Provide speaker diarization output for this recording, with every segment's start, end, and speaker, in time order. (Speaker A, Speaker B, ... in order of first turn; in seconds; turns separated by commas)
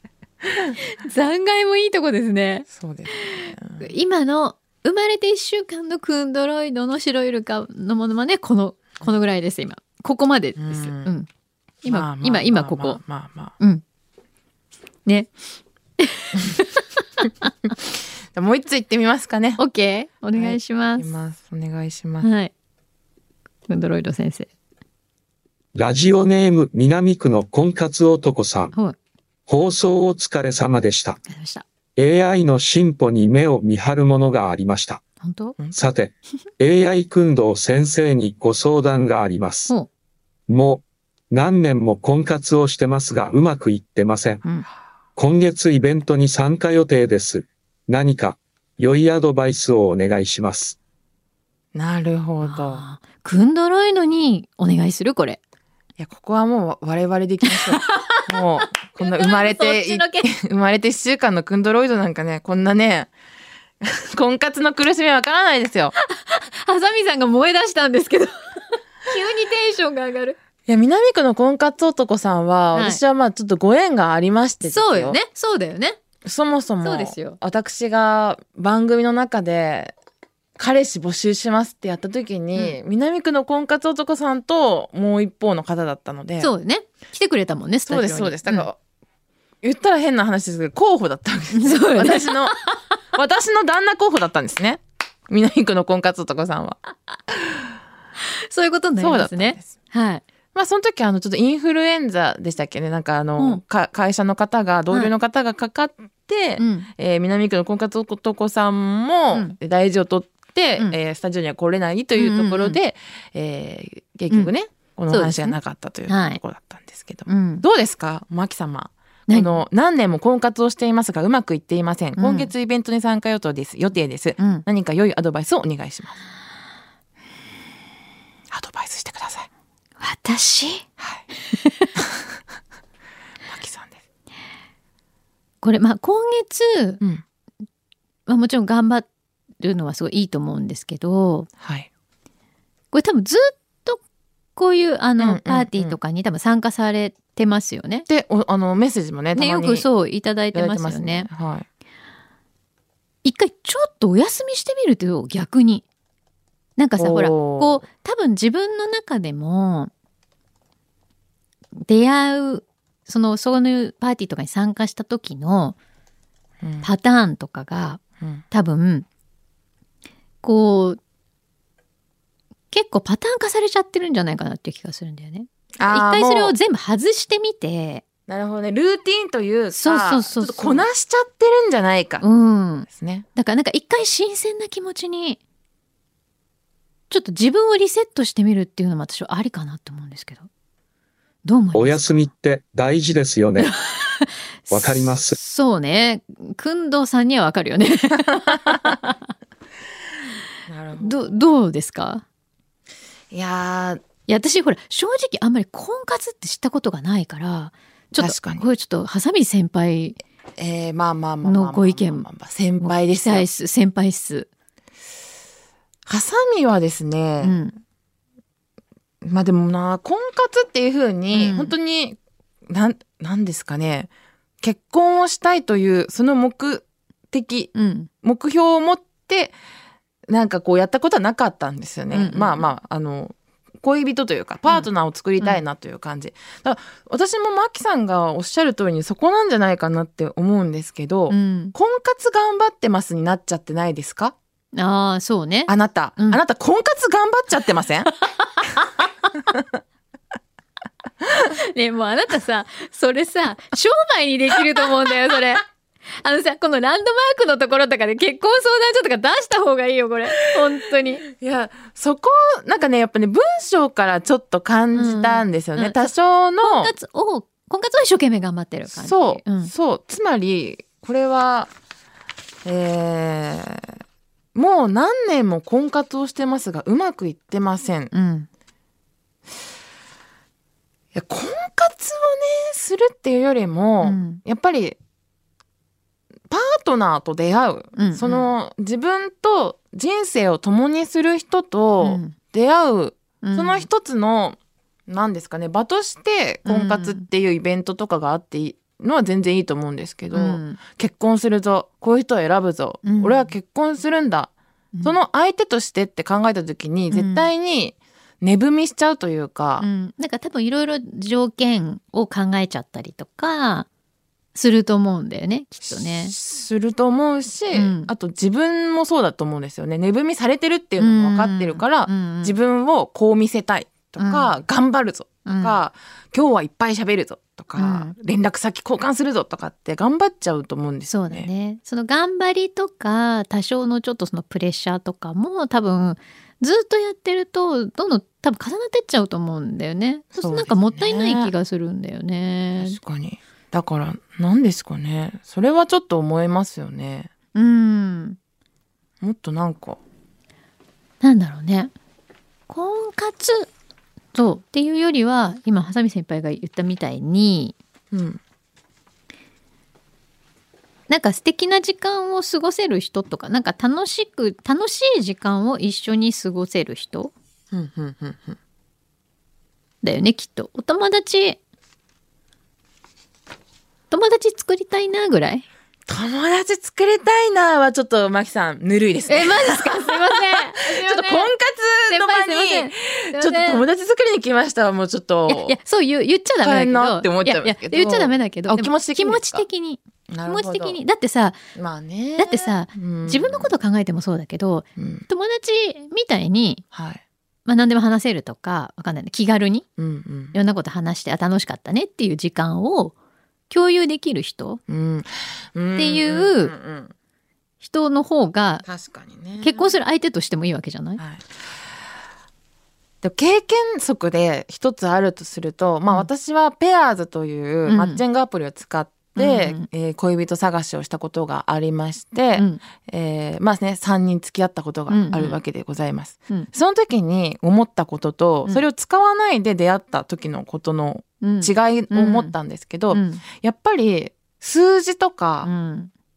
Speaker A: 0.4-0.8, Speaker B: 0.8-11.3, Speaker A: 2.7-3.9, Speaker A: 10.6-11.1, Speaker B: 11.8-13.0, Speaker A: 11.9-13.5, Speaker B: 15.1-15.3, Speaker B: 16.0-17.5, Speaker A: 18.3-19.6, Speaker B: 19.6-21.1, Speaker A: 20.4-22.3, Speaker B: 22.2-22.5, Speaker B: 23.7-24.5, Speaker C: 25.8-28.7, Speaker C: 29.5-31.2, Speaker B: 31.2-31.6, Speaker C: 32.0-35.0, Speaker B: 35.2-35.6, Speaker C: 35.8-39.7, Speaker C: 40.5-44.4, Speaker C: 45.2-50.8, Speaker A: 51.7-52.8, Speaker B: 52.4-55.4, Speaker A: 56.0-63.1, Speaker B: 57.5-60.3, Speaker A: 63.8-65.9, Speaker B: 66.0-70.4, Speaker A: 70.7-75.2, Speaker B: 72.7-73.0, Speaker B: 74.6-76.0, Speaker A: 76.2-79.9, Speaker B: 76.8-77.4, Speaker A: 80.6-86.5, Speaker B: 86.4-88.6, Speaker A: 87.9-88.8, Speaker A: 89.6-92.5, Speaker B: 91.5-92.7, Speaker A: 93.1-96.8, Speaker B: 98.5-100.2, Speaker A: 99.0-99.8, Speaker A: 100.5-126.2, Speaker B: 106.6-106.9, Speaker B: 112.2-112.8, Speaker B: 115.1-115.5, Speaker B: 116.1-116.4, Speaker B: 117.3-117.6, Speaker B: 119.3-119.6, Speaker B: 122.2-122.5, Speaker B: 124.4-124.6, Speaker A: 128.5-129.5, Speaker B: 130.0-130.8, Speaker A: 131.0-131.2, Speaker B: 131.5-131.9, Speaker A: 133.5-134.0, Speaker B: 135.6-137.0, Speaker B: 138.3-139.1, Speaker B: 139.6-141.5, Speaker A: 141.6-141.9, Speaker B: 142.9-144.0, Speaker B: 144.6-148.1, Speaker A: 145.2-146.0, Speaker A: 148.1-149.9, Speaker B: 149.3-151.3, Speaker A: 150.5-151.7, Speaker B: 153.2-155.8, Speaker B: 156.8-159.9, Speaker A: 157.0-157.8, Speaker B: 161.9-165.8, Speaker A: 166.6-166.9, Speaker B: 166.8-169.1, Speaker B: 170.4-171.0, Speaker B: 172.7-178.0, Speaker A: 175.8-176.6, Speaker A: 178.3-182.2, Speaker B: 179.7-180.9, Speaker B: 182.2-185.4, Speaker A: 182.9-183.2, Speaker B: 187.1-190.5, Speaker B: 191.4-192.0, Speaker C: 191.7-193.7, Speaker B: 193.6-199.2, Speaker C: 194.7-195.4, Speaker A: 198.3-198.9, Speaker A: 200.7-201.4, Speaker B: 201.0-202.2, Speaker A: 203.3-204.0, Speaker B: 204.3-210.2, Speaker A: 208.2-208.7, Speaker A: 210.6-213.5, Speaker B: 211.4-212.2, Speaker B: 212.8-214.5, Speaker A: 216.1-217.6, Speaker B: 217.4-217.8, Speaker A: 219.2-224.1, Speaker B: 221.3-221.7, Speaker A: 224.6-229.6, Speaker B: 227.8-228.1, Speaker A: 230.3-244.3, Speaker B: 232.1-232.7, Speaker B: 241.3-241.8, Speaker B: 244.7-246.4, Speaker A: 245.7-248.1, Speaker B: 248.4-248.9, Speaker B: 251.4-255.6, Speaker B: 256.2-261.2, Speaker A: 261.2-266.9, Speaker B: 265.0-266.1, Speaker B: 266.6-269.7, Speaker A: 268.9-271.7, Speaker A: 272.6-273.9, Speaker A: 274.6-278.1, Speaker B: 278.1-278.5, Speaker A: 281.1-285.0, Speaker B: 284.0-284.4, Speaker A: 286.5-304.5, Speaker B: 288.0-288.5, Speaker B: 292.0-292.4, Speaker B: 293.4-293.9, Speaker B: 296.6-297.2, Speaker B: 300.3-300.8, Speaker B: 303.0-303.5, Speaker B: 304.9-305.2, Speaker A: 305.0-309.9, Speaker B: 307.1-307.5, Speaker B: 309.8-313.9, Speaker B: 314.6-316.4, Speaker A: 315.9-331.5, Speaker B: 317.7-318.1, Speaker B: 321.0-322.6, Speaker B: 324.2-324.6, Speaker B: 325.4-325.8, Speaker B: 327.8-328.1, Speaker B: 331.1-343.0, Speaker A: 340.4-341.5, Speaker A: 342.8-347.3, Speaker B: 347.6-348.4, Speaker A: 349.2-350.0, Speaker B: 351.2-351.9, Speaker B: 352.7-353.7, Speaker B: 354.3-357.8, Speaker A: 358.1-358.4, Speaker B: 361.1-367.3, Speaker A: 367.7-368.6, Speaker B: 370.0-371.6, Speaker B: 374.1-375.6, Speaker A: 376.1-385.8, Speaker B: 379.3-381.5, Speaker B: 382.1-383.9, Speaker B: 385.5-391.6, Speaker A: 386.6-389.6, Speaker A: 390.3-391.0, Speaker A: 391.8-393.7, Speaker B: 392.4-396.8, Speaker A: 395.0-395.2, Speaker A: 396.9-397.2, Speaker B: 397.6-399.9, Speaker A: 400.0-400.6, Speaker B: 400.5-403.1, Speaker B: 403.7-404.8, Speaker A: 404.9-407.1, Speaker B: 406.0-406.7, Speaker B: 407.8-408.9, Speaker A: 408.9-409.9, Speaker B: 409.6-411.2, Speaker A: 411.2-411.5, Speaker A: 413.2-435.7, Speaker B: 417.9-418.2, Speaker B: 419.4-419.9, Speaker B: 425.1-425.6, Speaker B: 431.4-432.5, Speaker B: 433.1-433.4, Speaker B: 435.6-436.1